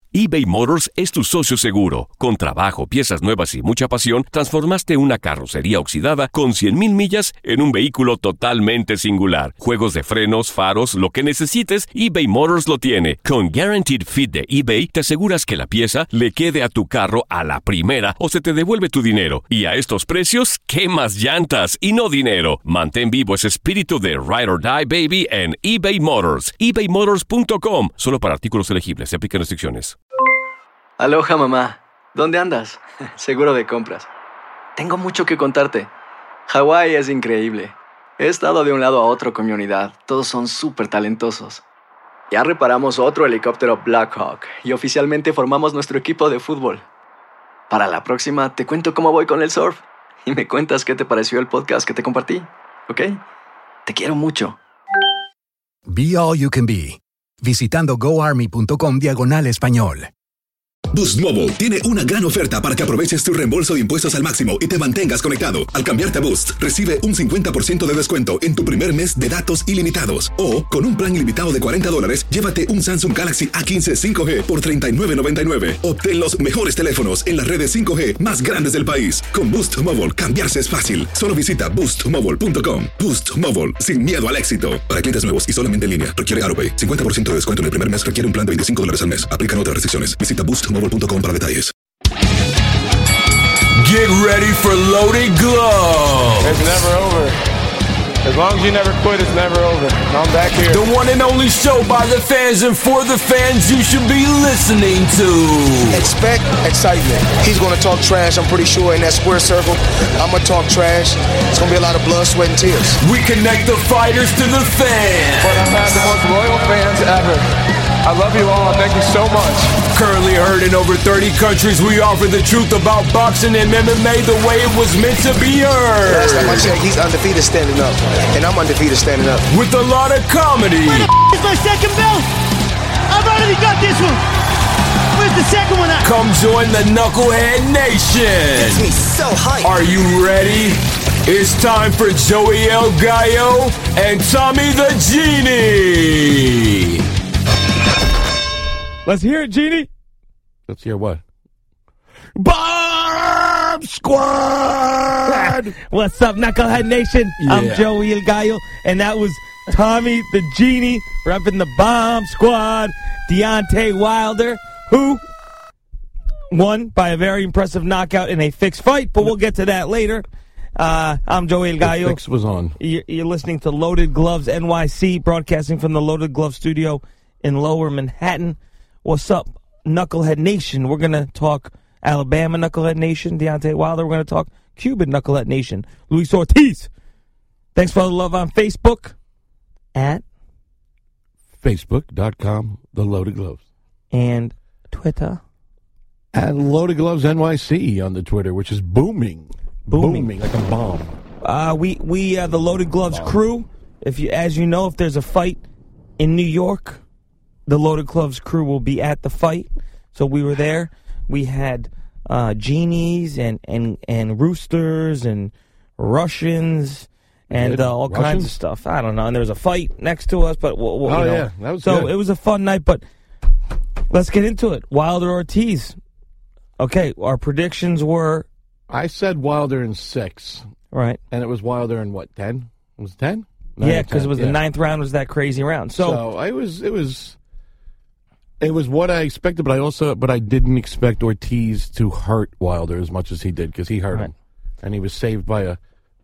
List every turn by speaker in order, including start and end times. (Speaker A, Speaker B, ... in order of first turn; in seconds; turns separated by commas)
Speaker A: 0.1-30.0, Speaker B: 31.0-34.1, Speaker B: 34.8-35.9, Speaker B: 36.5-41.6, Speaker B: 42.3-46.9, Speaker B: 47.7-53.2, Speaker B: 53.9-54.6, Speaker C: 55.9-60.1, Speaker D: 60.9-91.7, Speaker E: 93.8-96.9, Speaker F: 96.4-97.3, Speaker F: 98.2-100.8, Speaker E: 100.6-106.1, Speaker G: 105.9-113.0, Speaker E: 113.0-116.0, Speaker F: 115.4-117.5, Speaker F: 118.0-119.8, Speaker E: 119.9-126.8, Speaker G: 126.1-129.5, Speaker E: 129.5-131.1, Speaker H: 130.9-132.3, Speaker H: 133.1-134.2, Speaker H: 135.2-136.1, Speaker E: 136.0-138.9, Speaker E: 139.6-147.1, Speaker I: 149.1-149.9, Speaker J: 150.7-151.2, Speaker J: 152.4-155.8, Speaker I: 155.3-165.2, Speaker J: 157.4-157.9, Speaker I: 166.5-170.3, Speaker I: 170.8-172.2, Speaker J: 171.8-172.8, Speaker I: 172.8-186.9, Speaker I: 187.8-189.2, Speaker I: 189.9-190.2, Speaker J: 191.6-193.6, Speaker I: 194.1-195.4, Speaker J: 196.3-201.2, Speaker I: 199.9-200.3, Speaker I: 201.4-205.6, Speaker I: 206.2-207.0, Speaker I: 207.7-223.0, Speaker J: 217.5-218.5, Speaker J: 221.1-222.1, Speaker I: 224.1-226.0, Speaker I: 226.8-228.5, Speaker J: 228.9-230.7, Speaker I: 230.9-231.2, Speaker J: 231.3-234.6, Speaker I: 233.8-236.2, Speaker J: 236.0-237.4, Speaker J: 238.6-245.8